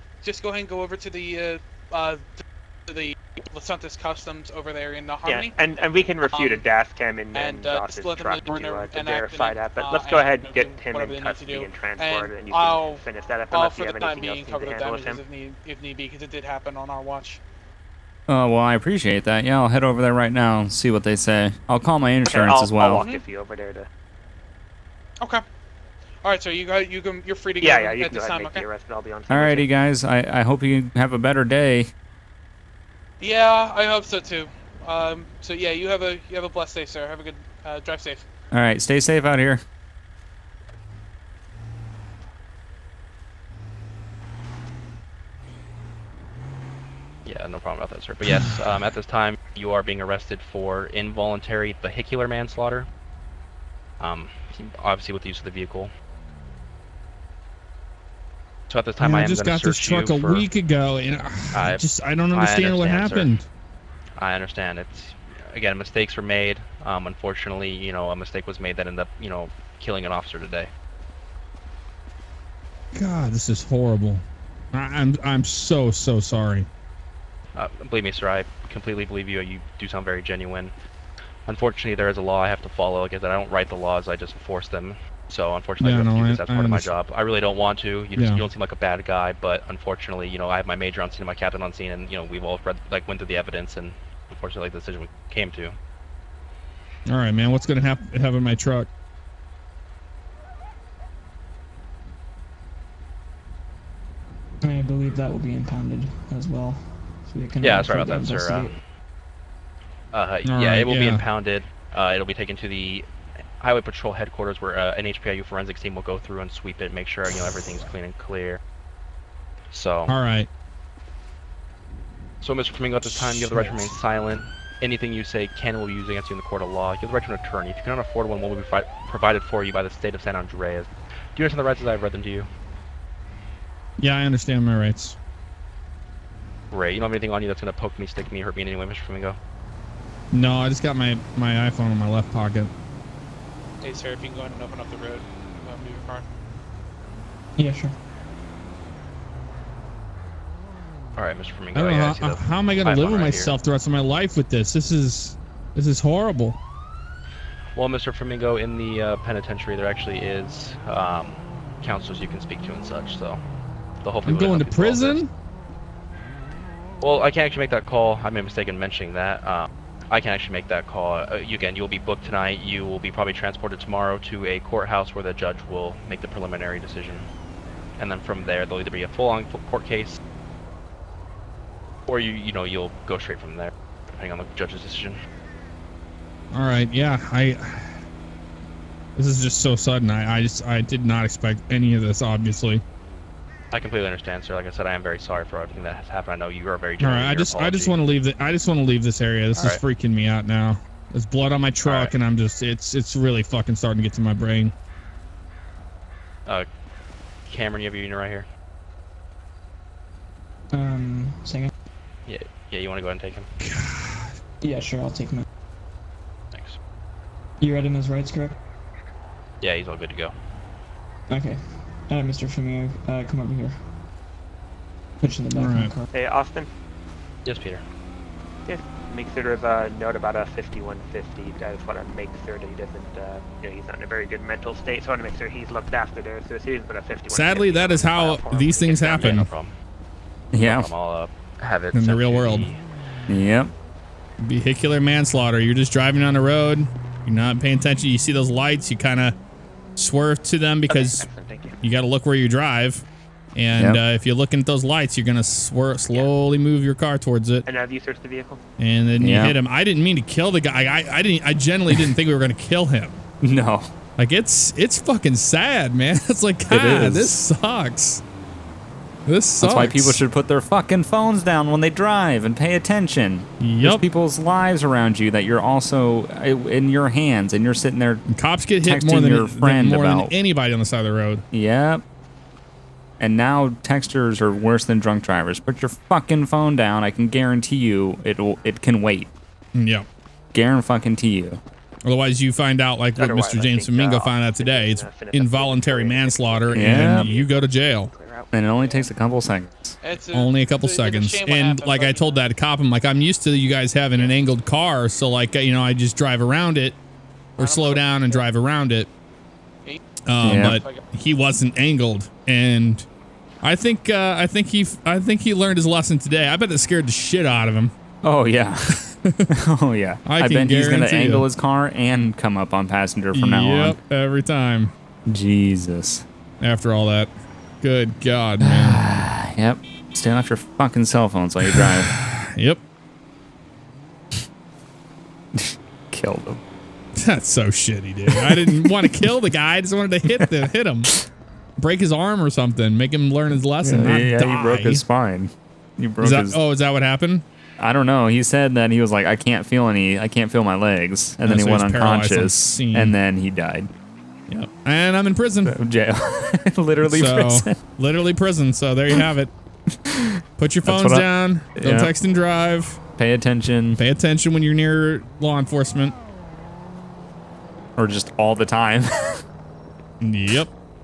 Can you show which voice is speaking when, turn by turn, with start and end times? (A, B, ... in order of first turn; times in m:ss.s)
0:00.2-0:05.5 A
0:05.2-0:15.2 B
0:06.3-0:06.6 A
0:07.3-0:17.4 A
0:18.3-0:23.0 C
0:22.2-0:23.9 B
0:23.0-0:23.2 A
0:26.2-0:28.6 A
0:27.6-0:29.7 B
0:29.3-0:31.9 C
0:33.2-0:38.2 A
0:38.5-0:39.6 C
0:47.2-0:52.9 D
0:54.0-0:55.9 D
0:58.7-1:00.4 D
0:59.0-1:03.4 E
1:01.5-1:03.4 D
1:04.2-1:10.7 D
1:12.9-1:16.7 E
1:17.5-1:20.7 D
1:21.4-1:35.8 D
1:25.8-1:26.9 E
1:28.2-1:28.4 E
1:37.1-1:38.9 E
1:44.6-1:48.8 F
1:47.6-1:48.8 D
1:50.1-1:53.0 D
1:50.4-1:51.2 E
1:53.6-1:58.6 D
1:59.7-2:00.2 D
2:00.1-2:00.5 E
2:02.4-2:12.5 D
2:14.0-2:15.2 E
2:16.7-2:19.4 D
2:20.3-2:22.7 E
2:23.8-2:26.2 A
2:27.6-2:27.9 F
2:31.2-2:33.6 D
2:31.7-2:36.6 E
2:37.7-2:43.4 D
2:44.0-2:45.2 D
2:44.2-2:45.3 E
2:47.0-2:57.3 D
2:58.0-3:00.2 D
3:02.1-3:05.2 D
3:06.5-3:08.0 E
3:09.2-3:12.8 E
3:13.7-3:18.0 D
3:17.0-3:24.7 E
3:19.6-3:19.8 D
3:21.8-3:22.1 D
3:27.5-3:28.4 D
3:30.7-3:31.7 F
3:32.2-3:33.5 D
3:33.6-3:34.3 E
3:34.6-3:35.4 F
3:36.5-3:36.8 D
3:37.6-3:38.5 F
3:39.6-3:40.3 D
3:41.3-3:43.9 F
3:45.2-3:46.1 F
3:45.5-3:45.9 E
3:46.1-3:46.7 B
3:47.4-3:47.8 D
3:48.6-3:59.3 B
3:57.3-3:59.5 E
3:58.8-3:59.7 D
4:00.5-4:00.9 C
4:00.6-4:02.8 D
4:01.9-4:02.7 E
4:03.3-4:03.7 C
4:04.4-4:09.4 E
4:10.0-4:11.3 E
4:10.9-4:11.8 B
4:11.8-4:17.7 E
4:13.8-4:14.0 C
4:17.6-4:18.6 B
4:18.8-4:23.2 E
4:19.2-4:19.6 C
4:23.4-4:23.9 C
4:24.2-4:28.2 E
4:26.7-4:27.3 C
4:29.2-4:30.2 E
4:29.6-4:38.2 C
4:33.6-4:34.0 E
4:38.3-4:41.4 E
4:38.8-4:40.3 C
4:41.5-4:42.0 C
4:43.2-4:49.3 C
4:49.7-4:50.1 E
4:50.5-4:51.6 C
4:52.0-4:58.1 E
4:53.2-4:59.1 B
4:56.7-4:57.3 C
4:58.5-5:00.0 C
5:00.0-5:02.4 A
5:00.3-5:07.0 E
5:07.6-5:09.1 E
5:07.6-5:08.5 A
5:10.2-5:13.1 E
5:10.4-5:10.8 C
5:10.6-5:11.0 A
5:13.6-5:17.9 E
5:18.2-5:19.0 C
5:18.9-5:19.4 E
5:19.5-5:24.0 C
5:20.2-5:21.4 E
5:23.3-5:24.9 E
5:25.3-5:26.2 C
5:26.6-5:27.3 E
5:27.8-5:29.0 E
5:28.6-5:32.1 C
5:31.7-5:32.8 E
5:35.5-5:36.6 C
5:37.2-5:41.1 E
5:38.3-5:39.2 C
5:40.3-5:40.6 C
5:41.8-5:45.0 E
5:43.8-5:46.6 C
5:46.2-5:47.4 E
5:47.8-5:53.9 C
5:51.4-5:53.2 E
5:54.5-5:55.7 E
5:55.6-5:57.8 C
5:57.0-5:59.5 E
5:59.9-6:02.1 C
6:00.6-6:03.0 E
6:03.2-6:04.0 C
6:04.0-6:06.2 E
6:08.0-6:09.4 C
6:10.2-6:10.7 E